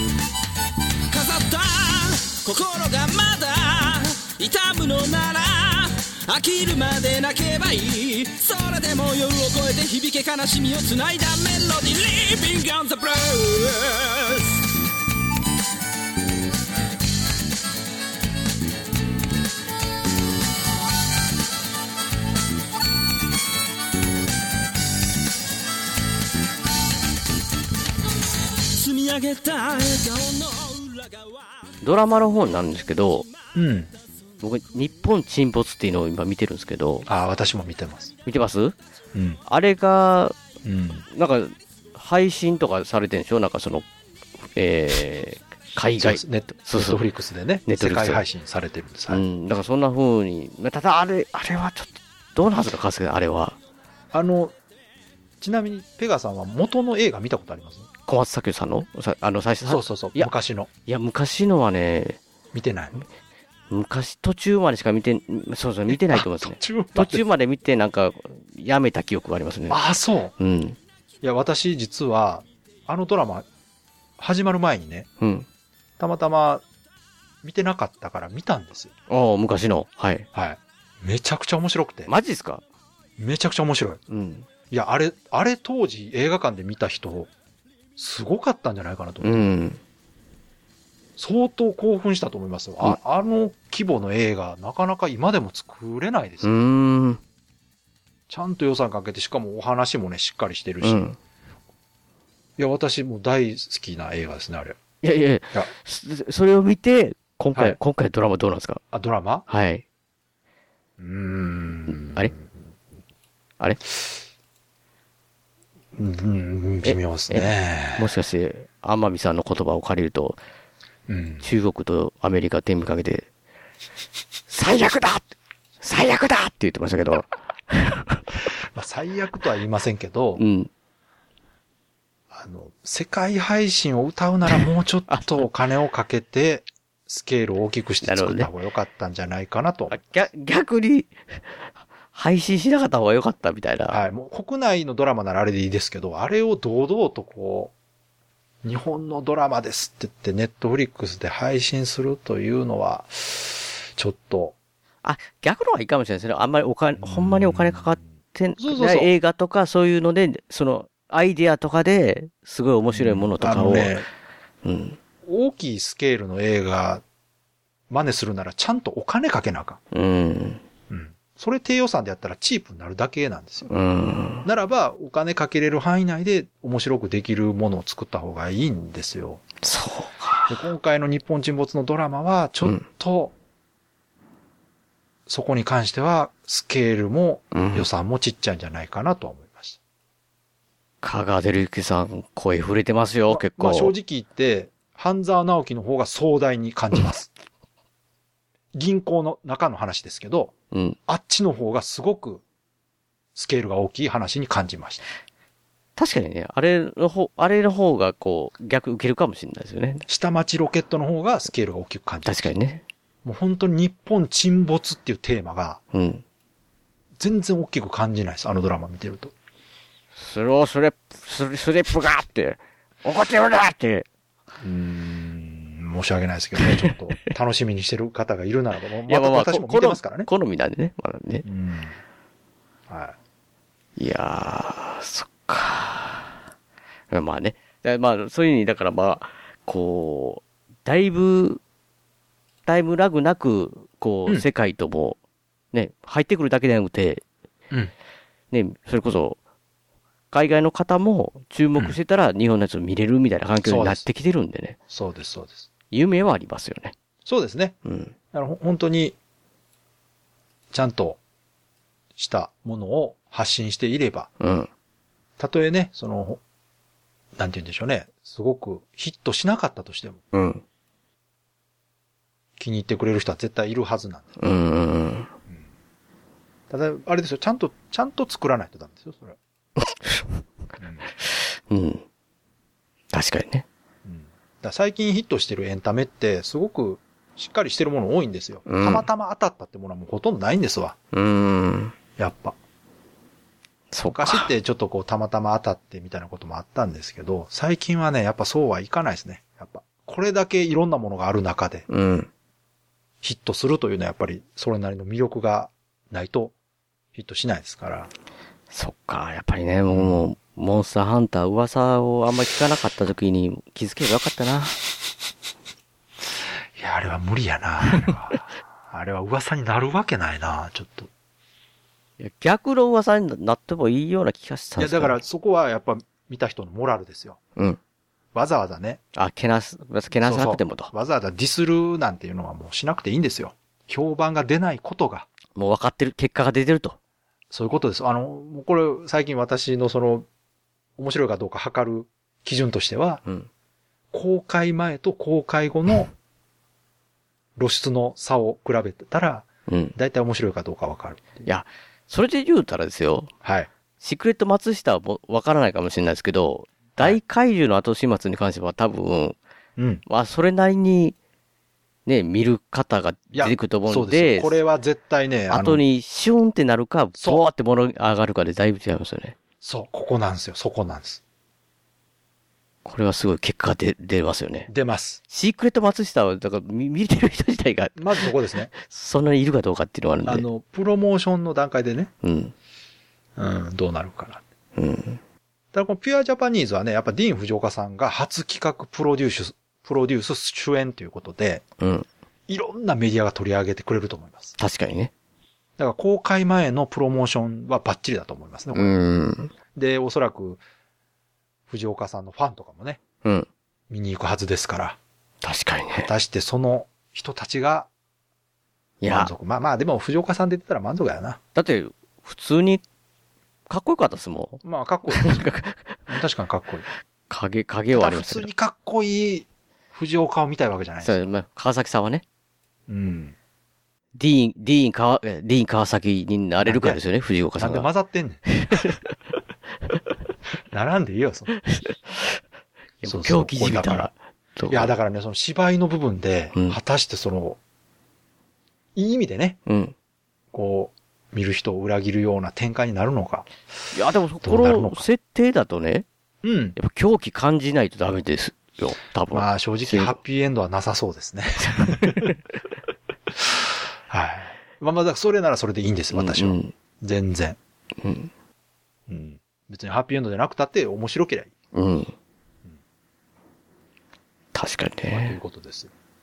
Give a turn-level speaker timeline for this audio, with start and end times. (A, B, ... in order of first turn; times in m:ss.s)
0:01.1-0:14.6 A
0:28.7-0:31.5 A
0:31.8-0:33.3 B
0:33.6-0:33.9 C
0:34.4-0:37.1 B
0:37.1-0:38.1 C
0:38.3-0:38.8 B
0:39.1-0:39.4 C
0:39.5-0:40.4 B
0:40.6-0:41.1 C
0:41.1-0:43.9 B
0:44.6-0:47.0 B
0:46.0-0:49.2 C
0:47.7-0:48.2 B
0:49.1-0:53.6 B
0:54.1-0:54.6 C
0:55.4-0:57.9 C
0:58.1-1:00.3 B
0:59.6-1:00.7 C
1:00.9-1:02.2 B
1:02.5-1:03.0 C
1:03.7-1:09.8 B
1:05.9-1:07.2 C
1:09.7-1:10.3 C
1:10.4-1:10.8 B
1:11.2-1:13.5 C
1:14.2-1:15.1 C
1:15.2-1:15.5 B
1:16.0-1:16.6 C
1:17.4-1:18.9 C
1:19.1-1:20.3 B
1:20.3-1:22.1 C
1:22.1-1:22.6 B
1:23.2-1:24.0 C
1:24.1-1:24.5 B
1:24.7-1:27.3 C
1:28.0-1:29.5 C
1:29.2-1:29.8 B
1:31.2-1:36.5 C
1:36.4-1:37.2 B
1:38.3-1:41.1 C
1:40.8-1:41.2 B
1:42.6-1:44.8 C
1:45.0-1:48.8 B
1:48.9-1:49.5 C
1:49.5-1:49.8 B
1:51.0-1:52.5 C
1:53.9-1:54.2 C
1:55.9-1:58.1 C
1:56.8-2:00.4 B
2:01.1-2:01.5 C
2:01.4-2:03.3 B
2:04.5-2:05.3 B
2:05.8-2:08.2 B
2:08.7-2:10.4 C
2:10.4-2:10.7 B
2:12.3-2:20.0 C
2:18.0-2:18.5 B
2:19.9-2:21.1 B
2:22.1-2:24.0 B
2:23.9-2:27.7 C
2:28.6-2:34.6 C
2:35.0-2:44.0 B
2:37.0-2:38.0 C
2:38.6-2:39.1 C
2:42.9-2:44.1 C
2:44.6-2:45.0 B
2:45.2-2:47.0 C
2:47.9-2:49.8 C
2:49.9-2:50.6 B
2:50.9-2:53.7 C
2:53.7-2:54.5 B
2:54.4-2:59.4 C
2:59.6-3:00.6 B
3:00.5-3:03.3 C
3:05.3-3:09.8 C
3:07.5-3:07.9 B
3:11.0-3:13.9 B
3:13.3-3:17.3 C
3:18.7-3:20.5 C
3:20.7-3:21.0 B
3:21.1-3:22.4 C
3:23.4-3:25.0 C
3:26.0-3:30.0 B
3:30.1-3:32.5 C
3:32.2-3:32.8 B
3:33.2-3:35.8 C
3:35.9-3:36.2 B
3:37.2-3:39.3 C
3:40.2-3:44.1 B
3:44.6-3:50.3 C
3:49.1-3:51.4 B
3:51.4-3:52.0 C
3:52.9-3:53.2 C
3:54.0-3:56.3 B
3:57.1-4:01.6 B
4:02.7-4:05.2 B
4:05.7-4:07.2 B
4:08.5-4:09.4 B
4:10.3-4:14.8 B
4:13.6-4:14.0 C
4:14.9-4:15.7 C
4:15.9-4:16.9 B
4:17.2-4:17.8 C
4:17.8-4:18.1 B
4:18.3-4:19.2 C
4:20.7-4:21.2 C
4:22.2-4:24.3 C
4:24.4-4:24.7 B
4:25.4-4:26.4 C
4:27.4-4:30.2 C
4:30.3-4:30.6 B
4:32.6-4:34.3 C
4:34.4-4:35.3 B
4:36.7-4:39.4 C
4:39.8-4:40.4 B
4:40.8-4:41.1 C
4:41.2-4:42.0 B
4:43.1-4:43.7 B
4:44.0-4:51.0 C
4:48.7-4:49.1 B
4:51.1-4:52.0 B
4:52.2-4:52.6 C
4:53.9-4:54.5 B
4:54.1-5:01.9 C
5:01.9-5:02.3 B
5:03.2-5:06.5 C
5:07.1-5:08.1 C
5:08.7-5:14.8 B
5:09.9-5:10.2 C
5:16.8-5:21.1 C
5:22.2-5:25.2 B
5:24.8-5:27.4 C
5:28.3-5:29.0 C
5:29.2-5:30.9 B
5:30.2-5:35.3 C
5:35.6-5:37.0 B
5:37.5-5:40.3 C
5:41.0-5:43.2 C
5:44.1-5:46.1 C
5:47.6-5:51.5 C
5:49.7-5:50.0 B
5:51.4-5:53.3 B
5:53.4-5:53.7 C
5:54.0-5:59.4 B
5:59.8-6:00.0 C
6:00.1-6:01.2 B
6:02.1-6:04.6 B
6:03.3-6:05.8 C
6:05.5-6:09.4 B
6:09.6-6:11.2 C
6:12.8-6:14.7 B
6:14.7-6:15.2 C
6:15.3-6:20.5 B
6:18.0-6:18.7 C
6:20.2-6:22.1 C
6:22.2-6:22.5 B
6:23.4-6:24.4 C
6:24.8-6:25.2 B
6:25.7-6:31.6 C
6:31.8-6:32.1 B
6:32.5-6:34.6 C
6:34.6-6:35.1 B
6:35.8-6:38.9 C
6:38.7-6:39.5 B
6:39.7-6:40.6 C
6:41.7-6:43.0 C
6:43.9-6:45.0 C
6:45.4-6:46.1 B
6:46.0-6:47.9 C
6:49.0-6:49.3 B
6:49.1-6:51.4 C
6:51.6-6:52.8 B
6:53.7-6:56.0 B
6:54.6-6:55.4 C
6:56.1-6:56.9 C
6:57.3-6:58.5 B
6:57.9-7:01.2 C
7:01.0-7:02.2 B
7:02.9-7:03.4 C
7:04.2-7:07.9 B
7:06.6-7:07.0 C
7:07.6-7:08.5 C
7:08.6-7:09.0 B
7:10.7-7:11.6 C
7:11.6-7:12.4 B
7:13.0-7:14.9 B
7:13.0-7:14.1 C
7:14.7-7:17.6 C
7:19.0-7:19.6 C
7:19.7-7:19.9 B
7:20.5-7:23.5 C
7:23.9-7:26.1 B
7:24.4-7:25.0 C
7:26.4-7:26.8 C
7:26.8-7:30.2 B
7:29.3-7:32.3 C
7:31.7-7:32.3 B
7:33.4-7:37.6 C
7:36.1-7:36.7 B
7:38.0-7:38.3 B
7:39.1-7:41.5 C
7:41.7-7:42.1 B
7:44.5-7:45.4 B
7:45.1-7:45.9 C